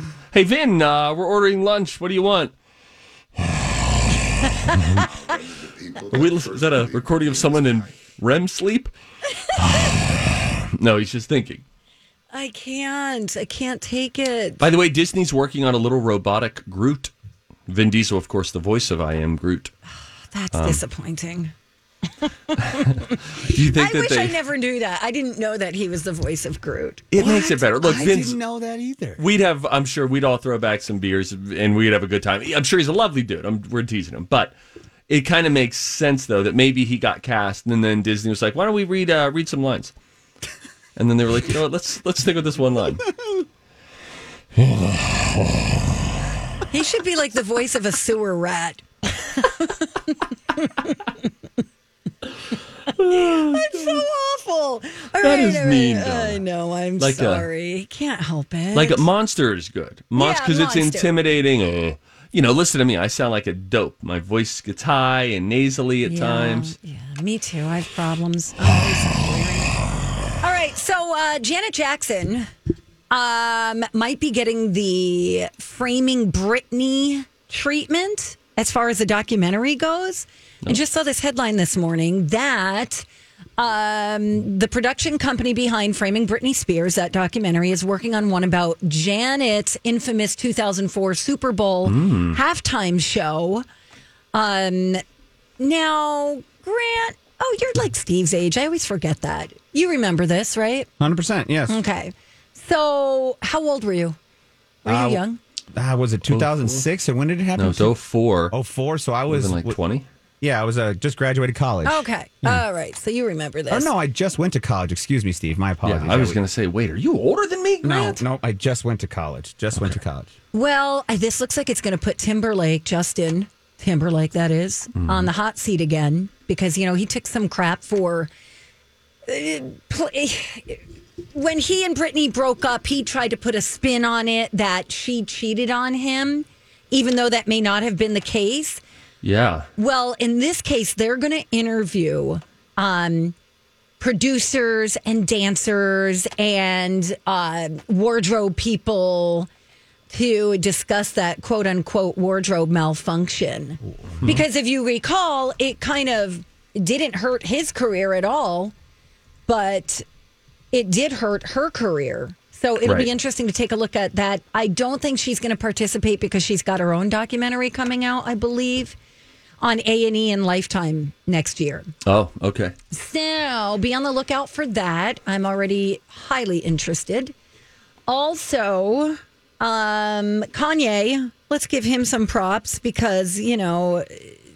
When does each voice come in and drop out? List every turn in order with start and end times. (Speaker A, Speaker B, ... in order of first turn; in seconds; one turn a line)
Speaker A: 0.3-2.5
Speaker B: 4.5-4.8
Speaker C: 4.7-8.0
Speaker A: 6.1-8.9
Speaker B: 9.4-9.9
Speaker A: 9.6-11.6
Speaker B: 12.3-14.6
Speaker A: 14.6-17.1
Speaker A: 17.7-19.7
Speaker B: 20.3-21.5
Speaker A: 20.5-20.8
Speaker B: 22.5-22.9
Speaker A: 22.8-24.4
Speaker B: 23.5-27.6
Speaker A: 27.1-28.4
Speaker D: 27.2-29.2
Speaker A: 29.2-34.5
Speaker A: 35.1-39.9
Speaker A: 41.0-43.0
Speaker B: 46.7-51.1
Speaker B: 52.9-59.1
Speaker A: 52.9-54.0
Speaker A: 55.2-56.4
Speaker A: 57.0-57.5
Speaker A: 58.7-66.7
Speaker B: 60.1-61.1
Speaker B: 66.0-69.7
Speaker B: 70.4-72.5
Speaker B: 73.1-83.0
Speaker B: 83.6-93.6
Speaker A: 91.8-92.4
Speaker B: 94.3-95.0
Speaker B: 95.6-100.9
Speaker D: 101.0-101.8
Speaker B: 101.7-104.2
Speaker B: 104.8-105.4
Speaker D: 104.8-105.2
Speaker D: 105.7-107.9
Speaker A: 106.3-106.8
Speaker A: 107.5-108.5
Speaker D: 108.5-109.8
Speaker A: 109.3-110.0
Speaker D: 110.4-112.6
Speaker B: 111.8-113.9
Speaker D: 113.7-116.4
Speaker A: 115.8-118.2
Speaker D: 117.8-120.3
Speaker B: 120.5-128.3
Speaker A: 124.9-125.3
Speaker B: 129.3-130.8
Speaker B: 131.3-138.8
Speaker A: 139.2-139.7
Speaker B: 139.8-143.3
Speaker B: 144.0-149.5
Speaker B: 150.1-158.7
Speaker B: 159.5-160.0
Speaker B: 160.7-168.9
Speaker B: 169.6-171.9
Speaker A: 172.1-172.7
Speaker B: 172.9-177.3
Speaker B: 178.1-184.4